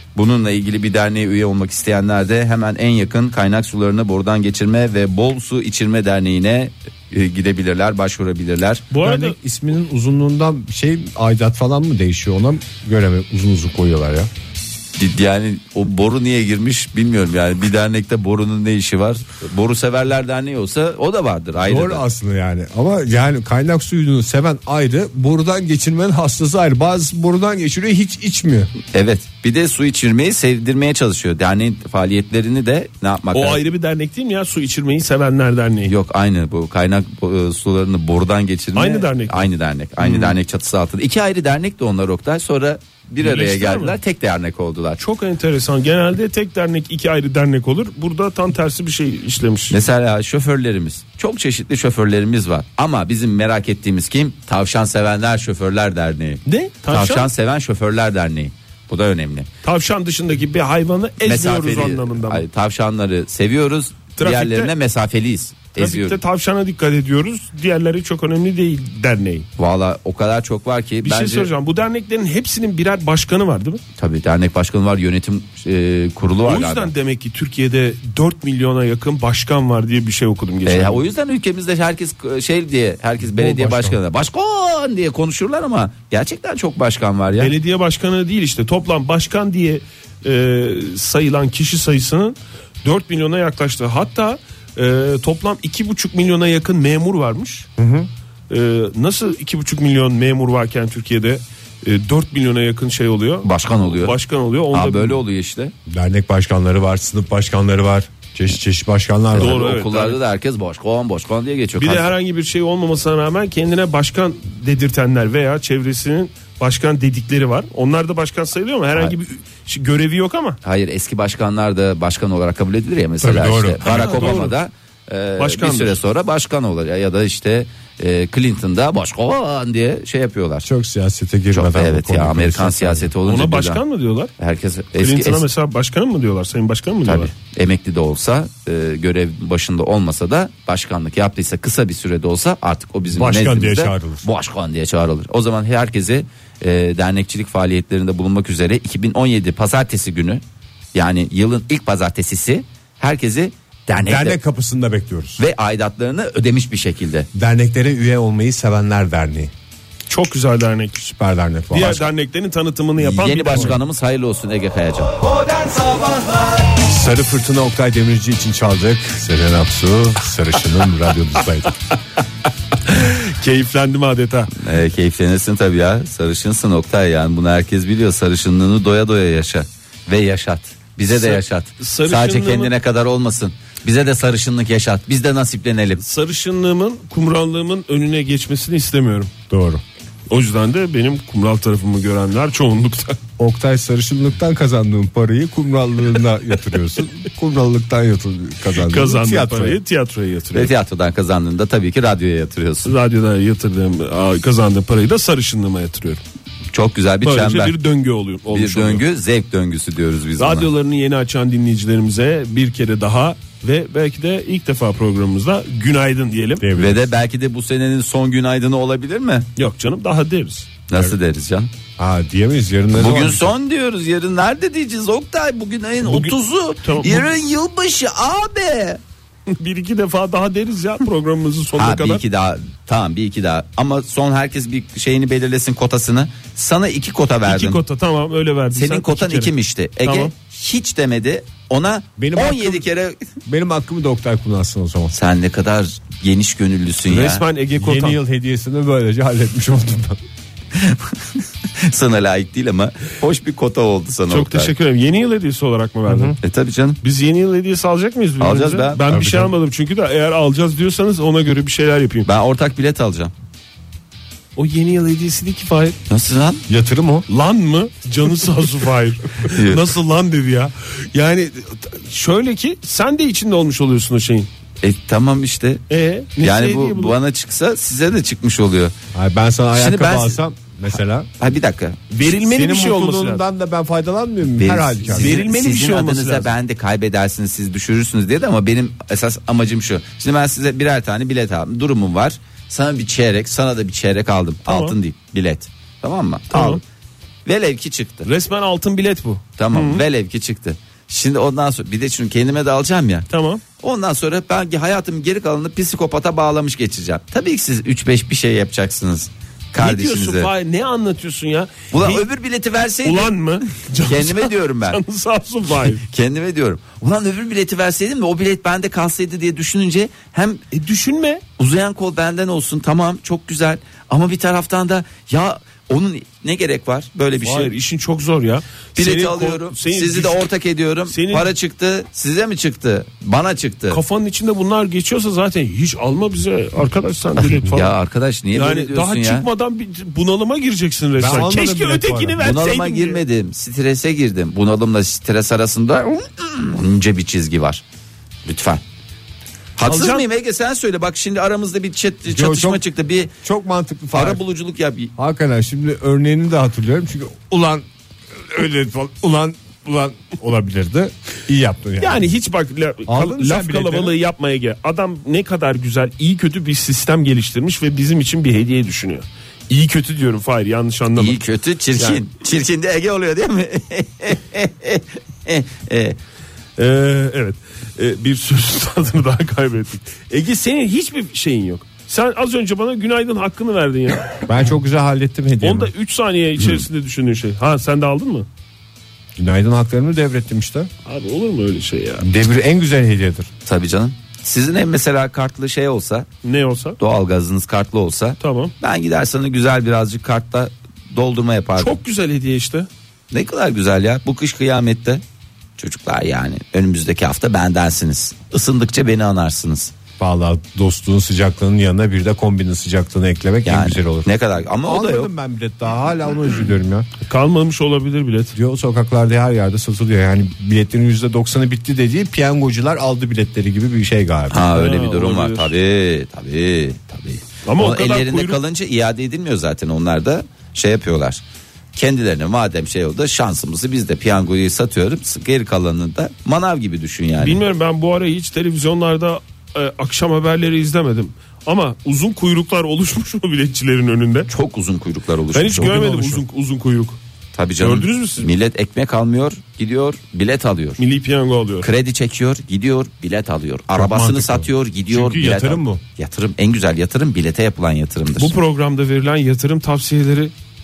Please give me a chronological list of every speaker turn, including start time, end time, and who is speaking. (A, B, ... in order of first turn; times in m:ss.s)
0:00.1-0:08.9 A
0:08.9-0:09.4 B
0:09.0-0:14.3 C
0:15.0-0:22.0 A
0:21.6-0:28.7 C
0:28.9-0:33.6 A
0:33.3-0:35.9 B
0:35.9-0:45.0 A
0:38.7-0:40.4 B
0:43.2-0:44.0 B
0:45.0-0:49.8 B
0:49.7-0:59.5 A
0:56.4-0:57.3 B
0:59.6-1:02.4 B
1:01.2-1:06.2 A
1:04.2-1:04.7 B
1:05.7-1:09.4 B
1:09.6-1:11.5 A
1:11.0-1:13.8 B
1:14.0-1:16.9 A
1:16.4-1:21.1 B
1:20.6-1:27.5 A
1:23.2-1:24.0 C
1:27.4-1:37.7 B
1:37.8-1:38.1 C
1:38.5-1:45.2 B
1:43.4-1:44.2 A
1:44.7-1:45.7 A
1:45.9-1:49.6 C
1:49.3-1:52.1 A
1:49.3-1:50.2 B
1:51.8-2:00.6 B
2:00.6-2:10.7 A
2:03.2-2:04.5 C
2:03.8-2:04.5 B
2:05.4-2:06.0 B
2:10.6-2:13.1 C
2:11.5-2:13.8 A
2:13.2-2:14.3 B
2:14.4-2:15.4 A
2:15.0-2:17.3 B
2:17.0-2:30.4 A
2:23.1-2:24.2 C
2:30.9-2:34.4 A
2:34.0-2:35.4 C
2:35.4-2:37.3 A
2:37.3-2:39.5 C
2:40.1-2:41.0 B
2:41.0-2:42.1 C
2:41.7-2:43.8 B
2:43.0-2:46.3 A
2:46.8-2:51.7 C
2:52.8-2:54.5 B
2:54.6-3:06.0 A
3:01.1-3:02.7 B
3:06.0-3:09.3 B
3:09.5-3:09.8 C
3:10.3-3:13.2 B
3:13.4-3:19.8 C
3:18.7-3:20.7 B
3:20.5-3:22.9 A
3:22.8-3:26.2 B
3:26.7-3:27.8 A
3:27.2-3:29.0 B
3:28.5-3:30.7 A
3:30.4-3:36.7 B
3:36.6-3:37.1 C
3:36.7-3:39.5 A
3:39.6-3:40.7 B
3:40.9-3:41.7 A
3:42.0-3:43.5 C
3:42.9-3:49.0 A
3:46.0-3:47.3 B
3:49.5-3:52.2 B
3:51.8-3:57.8 A
3:57.4-3:59.5 B
3:58.7-4:03.2 A
4:00.0-4:00.3 B
4:02.2-4:02.9 C
4:03.4-4:05.1 C
4:05.1-4:07.4 A
4:07.0-4:08.2 B
4:07.8-4:10.2 C
4:10.7-4:14.7 A
4:14.3-4:16.4 B
4:16.1-4:16.4 C
4:16.4-4:17.0 A
4:17.0-4:22.3 B
4:18.4-4:19.0 A
4:19.1-4:19.5 C
4:22.2-4:23.3 A
4:24.6-4:26.0 B
4:26.1-4:26.6 A
4:26.7-4:27.2 C
4:27.3-4:34.5 B
4:29.4-4:29.9 A
4:34.8-4:35.8 A
4:35.9-4:37.2 B
4:36.4-4:38.9 A
4:39.1-4:41.3 C
4:39.7-4:40.4 A
4:41.4-4:42.0 A
4:42.1-4:43.4 B
4:42.3-4:45.4 C
4:44.6-4:56.8 A
4:45.1-4:46.5 B
4:54.6-4:55.0 B
4:56.5-4:56.8 B
4:57.4-4:58.3 A
4:58.2-5:00.0 B
4:59.6-5:03.3 A
5:03.3-5:03.6 B
5:03.8-5:10.5 A
5:09.8-5:12.3 B
5:11.9-5:15.0 A
5:13.0-5:16.0 B
5:16.0-5:20.6 A
5:20.7-5:21.4 B
5:21.6-5:27.7 A
5:27.4-5:30.4 B
5:29.0-5:34.0 A
5:31.1-5:31.5 B
5:33.9-5:37.9 B
5:37.4-5:39.4 A
5:38.5-5:43.2 B
5:41.2-5:42.4 C
5:42.4-5:47.8 A
5:48.4-5:48.8 A
5:49.8-5:53.3 A
5:49.8-5:50.2 B
5:52.3-5:52.8 C
5:53.4-5:54.4 C
5:54.1-5:55.1 A
5:55.2-6:02.3 C
6:02.0-6:11.4 B
6:03.0-6:04.2 C
6:11.2-6:16.2 A
6:16.8-6:24.4 B
6:24.5-6:25.9 C
6:25.6-6:28.5 B
6:29.4-6:30.9 C
6:31.0-6:32.3 B
6:32.2-6:33.5 C
6:33.6-6:36.3 A
6:36.4-6:37.0 B
6:37.0-6:42.0 A
6:38.4-6:38.7 B
6:41.8-6:42.9 B
6:43.3-6:45.2 A
6:45.8-6:49.9 A
6:50.2-6:54.3 C
6:53.6-6:55.3 A
6:54.8-6:57.1 C
6:57.3-6:58.5 B
6:58.5-7:04.7 C
7:04.5-7:11.4 A
7:04.7-7:05.7 B
7:07.6-7:08.6 B
7:11.9-7:17.6 A
7:17.4-7:24.5 B
7:24.5-7:26.4 A
7:25.5-7:27.2 B
7:27.5-7:31.0 A
7:27.8-7:28.5 B
7:31.0-7:31.9 B
7:31.8-7:38.5 A
7:33.9-7:36.0 C
7:38.4-7:40.5 B